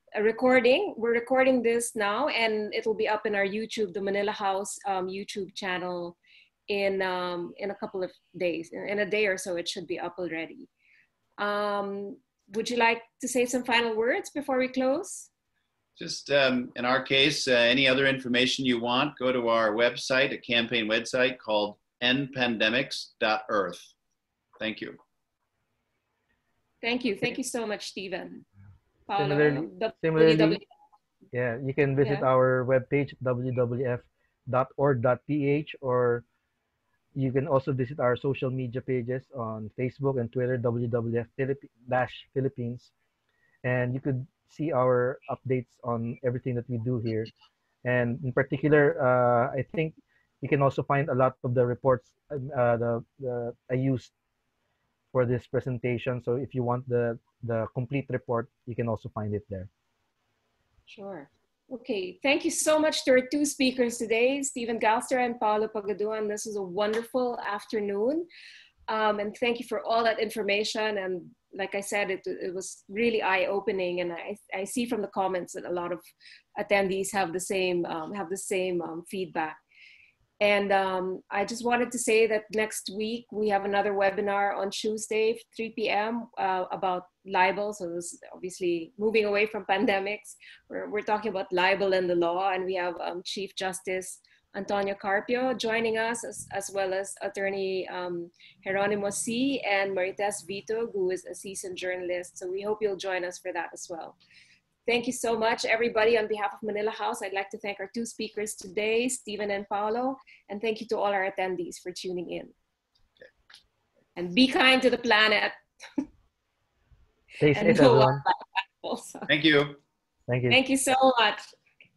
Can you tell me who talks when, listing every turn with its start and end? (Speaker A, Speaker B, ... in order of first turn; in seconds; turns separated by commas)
Speaker A: 0.1-6.2, Speaker A: 6.7-10.7, Speaker A: 11.4-15.3, Speaker B: 16.0-23.9, Speaker B: 24.6-25.0, Speaker A: 26.8-28.4, Speaker A: 29.1-30.6, Speaker C: 29.2-30.6, Speaker C: 31.3-36.2, Speaker A: 32.0-32.3, Speaker C: 37.1-42.9, Speaker C: 43.6-47.3, Speaker C: 47.8-54.1, Speaker C: 55.1-59.7, Speaker A: 60.9-68.3, Speaker A: 68.9-79.6, Speaker A: 80.4-104.2, Speaker A: 104.8-112.5, Speaker A: 114.2-115.6, Speaker C: 117.4-118.2, Speaker A: 117.5-119.3, Speaker B: 119.3-119.8, Speaker C: 120.3-120.6, Speaker A: 120.5-121.5